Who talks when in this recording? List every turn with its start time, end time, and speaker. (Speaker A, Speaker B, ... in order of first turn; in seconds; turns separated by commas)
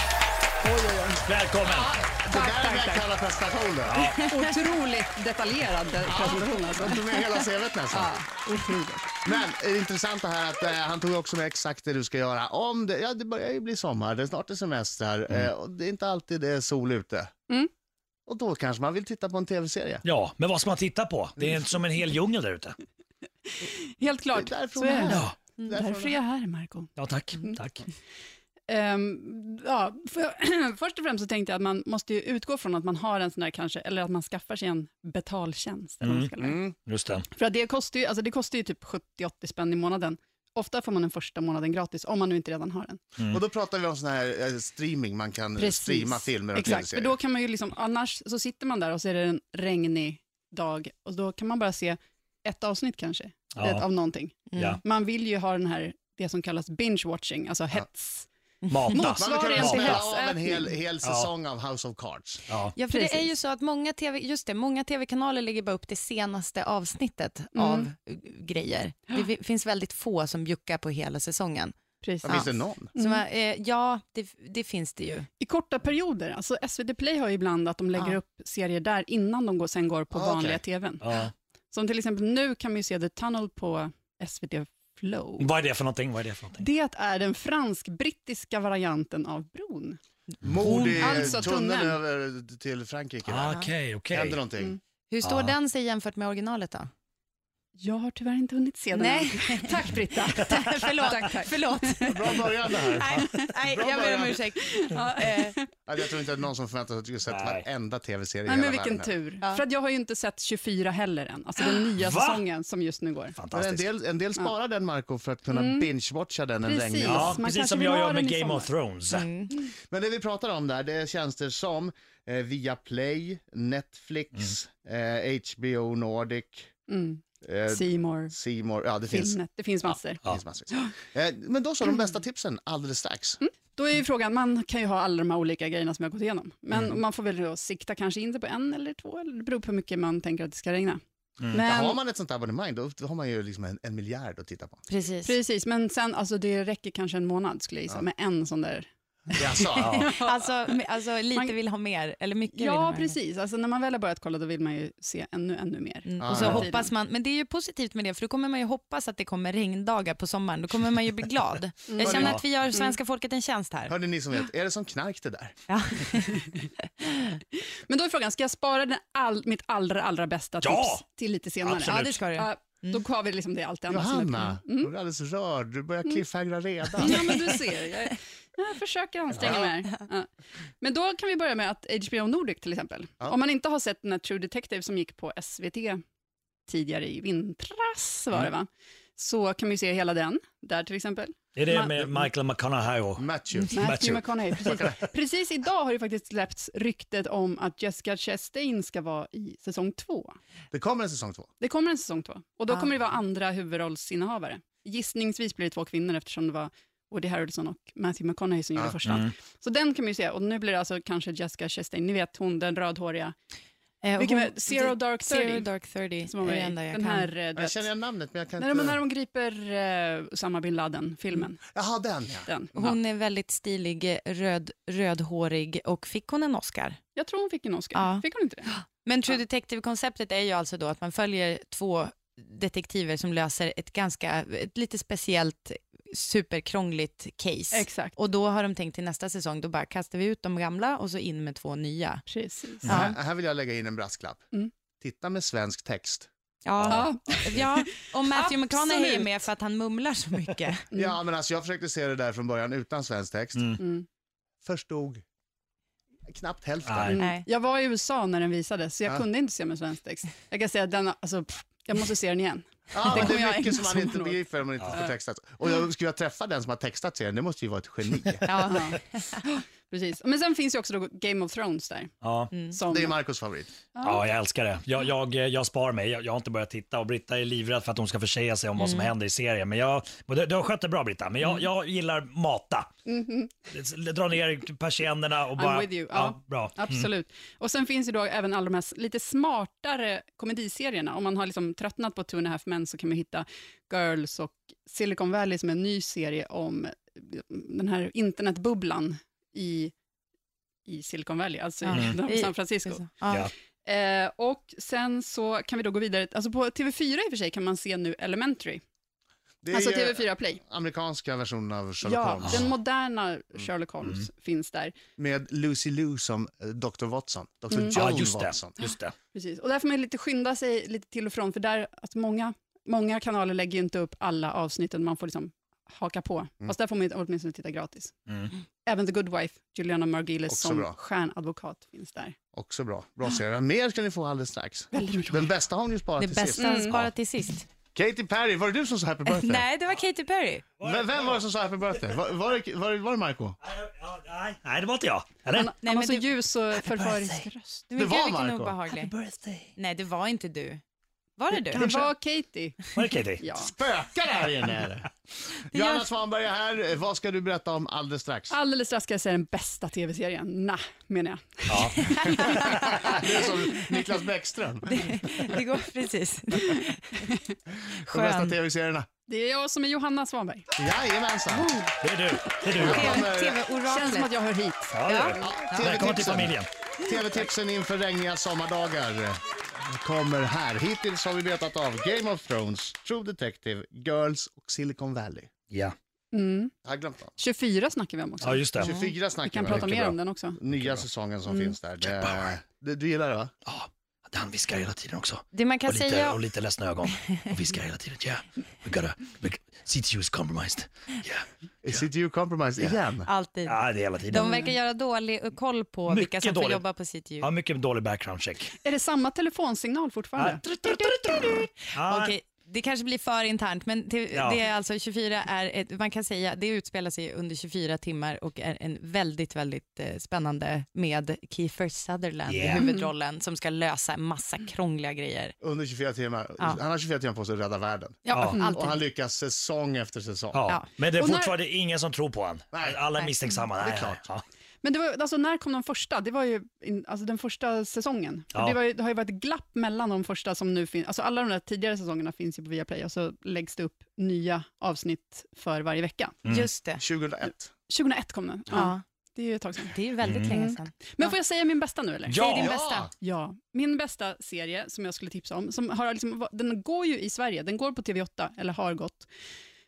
Speaker A: 0.6-1.2, Speaker B: 1.2-1.9, Speaker C: 1.6-4.0, Speaker A: 2.2-3.1, Speaker B: 3.8-4.2, Speaker D: 4.0-4.6, Speaker A: 4.1-9.3, Speaker C: 6.0-8.1, Speaker C: 9.2-17.3, Speaker C: 18.3-20.0, Speaker B: 20.0-22.8, Speaker A: 23.5-27.5, Speaker C: 24.3-26.2, Speaker B: 25.1-25.3, Speaker B: 27.0-27.8, Speaker A: 28.7-36.7, Speaker B: 36.0-37.3, Speaker C: 36.4-36.7, Speaker A: 37.3-43.0, Speaker C: 43.3-47.2, Speaker A: 45.6-58.3, Speaker B: 53.5-53.9, Speaker D: 54.5-54.8, Speaker D: 58.6-59.0, Speaker B: 58.7-60.1, Speaker A: 58.9-60.7, Speaker C: 59.1-62.4, Speaker B: 61.0-61.3, Speaker B: 62.5-62.7, Speaker D: 62.7-71.7, Speaker A: 62.9-63.3, Speaker A: 67.5-67.9, Speaker A: 72.0-72.4, Speaker C: 72.2-72.9, Speaker D: 72.2-75.3, Speaker A: 72.9-73.2, Speaker A: 75.4-81.0, Speaker C: 80.1-80.6, Speaker B: 81.0-81.3, Speaker A: 81.7-85.5, Speaker B: 85.4-86.7, Speaker A: 86.6-90.0, Speaker C: 90.4-93.6, Speaker B: 90.5-91.3, Speaker D: 90.6-91.0, Speaker A: 91.0-92.0, Speaker B: 93.2-94.4, Speaker C: 94.1-94.8, Speaker D: 95.1-96.9, Speaker B: 95.2-95.5, Speaker A: 97.8-103.5, Speaker D: 98.9-99.8, Speaker D: 100.3-105.6, Speaker C: 102.1-104.4, Speaker A: 104.7-105.8, Speaker C: 105.8-109.1, Speaker B: 107.3-107.6, Speaker A: 108.5-113.3, Speaker B: 111.6-112.4, Speaker B: 113.3-113.9, Speaker C: 113.5-117.4, Speaker A: 115.5-115.9, Speaker A: 116.6-118.7, Speaker B: 117.0-119.3, Speaker D: 119.1-119.5, Speaker C: 119.9-126.7, Speaker A: 126.9-128.3, Speaker C: 127.4-133.4, Speaker A: 129.1-130.9, Speaker A: 133.4-141.0, Speaker A: 141.5-142.0, Speaker C: 141.5-144.8, Speaker D: 144.9-145.4, Speaker A: 145.2-150.5, Speaker C: 149.3-150.0, Speaker B: 149.8-150.1, Speaker D: 150.0-153.2, Speaker A: 151.3-151.6, Speaker A: 152.5-156.9, Speaker D: 156.0-163.9, Speaker C: 156.2-156.7, Speaker A: 161.9-162.9, Speaker C: 162.0-162.4, Speaker B: 162.2-162.4, Speaker C: 163.9-165.5, Speaker D: 165.7-166.5, Speaker A: 167.9-174.9, Speaker B: 170.6-171.0, Speaker B: 171.6-172.2, Speaker D: 171.8-173.0, Speaker C: 173.9-177.4, Speaker A: 177.0-180.3, Speaker C: 179.3-179.7, Speaker A: 180.8-186.0, Speaker A: 186.7-192.1, Speaker B: 191.6-194.8, Speaker C: 193.2-193.8, Speaker A: 193.7-200.4, Speaker C: 194.6-195.1, Speaker C: 200.7-201.5, Speaker A: 201.6-213.3, Speaker B: 209.0-209.3, Speaker D: 214.0-217.3, Speaker A: 214.2-215.7, Speaker A: 216.2-217.9, Speaker C: 217.5-219.0, Speaker A: 218.6-221.6, Speaker C: 221.7-223.0, Speaker A: 222.4-222.8, Speaker D: 222.8-227.0, Speaker A: 227.1-228.7, Speaker D: 227.9-242.2, Speaker A: 237.7-238.2, Speaker A: 242.3-243.0, Speaker C: 242.8-246.3, Speaker D: 242.8-243.2, Speaker D: 246.6-250.8, Speaker A: 246.9-249.5, Speaker A: 250.9-251.2, Speaker C: 250.9-253.8, Speaker A: 253.8-254.1, Speaker C: 254.6-255.2, Speaker C: 256.3-257.1, Speaker B: 256.9-257.2, Speaker A: 257.0-265.1, Speaker D: 257.1-257.4, Speaker C: 262.9-268.5, Speaker D: 268.4-269.4, Speaker A: 268.6-272.1, Speaker B: 272.2-272.6, Speaker D: 272.5-272.8, Speaker A: 272.7-273.2, Speaker C: 272.9-273.7, Speaker A: 273.9-274.2, Speaker B: 274.0-282.9, Speaker D: 278.8-279.1, Speaker A: 283.1-283.5, Speaker B: 283.7-287.1, Speaker A: 285.5-299.9, Speaker A: 300.9-303.3, Speaker D: 301.8-303.5, Speaker B: 301.9-302.2, Speaker B: 303.3-303.5, Speaker A: 303.8-308.8, Speaker C: 309.6-312.7, Speaker A: 309.7-310.6, Speaker A: 312.0-314.9, Speaker C: 315.2-318.8, Speaker A: 317.7-318.0, Speaker B: 317.9-319.1, Speaker A: 319.3-328.1, Speaker B: 328.3-328.5, Speaker A: 328.8-332.4, Speaker C: 330.5-330.9, Speaker C: 332.5-337.1, Speaker A: 334.9-335.5, Speaker D: 336.2-337.6, Speaker A: 336.6-337.1, Speaker C: 337.9-339.6, Speaker D: 339.3-340.6, Speaker B: 340.8-341.4, Speaker C: 340.8-343.6, Speaker B: 343.6-345.7, Speaker A: 345.5-347.9, Speaker D: 345.8-346.3, Speaker B: 346.7-347.5, Speaker D: 347.9-349.1, Speaker C: 347.9-348.8, Speaker B: 348.9-349.7, Speaker D: 349.8-350.8, Speaker D: 351.4-351.9, Speaker C: 351.7-352.1, Speaker A: 351.8-353.7, Speaker B: 352.9-353.4, Speaker C: 353.5-355.1, Speaker C: 355.7-358.6, Speaker D: 355.7-356.1, Speaker A: 358.5-363.2, Speaker B: 361.7-362.0, Speaker D: 362.1-363.1, Speaker C: 362.4-365.5, Speaker D: 364.9-367.3, Speaker C: 368.1-369.1, Speaker D: 368.1-368.5, Speaker A: 369.3-370.7, Speaker C: 370.8-371.7, Speaker D: 371.5-371.9, Speaker B: 372.0-373.3, Speaker C: 372.7-373.6, Speaker D: 372.7-374.3, Speaker A: 373.8-375.6, Speaker B: 374.9-376.7, Speaker D: 375.1-375.9, Speaker C: 375.4-376.5, Speaker C: 377.0-385.5, Speaker A: 386.3-386.7, Speaker C: 386.8-387.3, Speaker A: 387.4-388.8, Speaker B: 388.4-388.9, Speaker C: 388.7-393.5, Speaker D: 388.8-389.1, Speaker A: 389.4-390.6, Speaker B: 389.7-390.1, Speaker B: 390.7-391.0, Speaker A: 391.5-391.8, Speaker B: 392.0-392.4, Speaker B: 393.6-402.0, Speaker D: 395.5-396.4, Speaker C: 401.8-403.3, Speaker D: 402.8-407.5, Speaker B: 403.6-404.7, Speaker B: 406.1-406.8, Speaker B: 407.4-408.7, Speaker A: 408.8-410.6, Speaker B: 410.4-412.3, Speaker D: 410.9-425.5, Speaker B: 414.3-414.6, Speaker B: 422.4-422.9, Speaker A: 422.7-423.0, Speaker C: 425.6-430.6, Speaker D: 428.2-429.0, Speaker B: 428.3-428.6, Speaker B: 430.5-434.4, Speaker A: 431.1-431.5, Speaker C: 432.7-433.0, Speaker C: 433.8-434.2, Speaker A: 434.8-446.4, Speaker D: 446.4-447.0, Speaker C: 447.0-447.7, Speaker A: 447.4-452.4, Speaker D: 448.7-449.0, Speaker D: 449.9-451.3, Speaker B: 450.2-450.6, Speaker B: 452.3-452.7, Speaker D: 452.4-453.1, Speaker C: 452.5-453.1, Speaker A: 453.2-459.3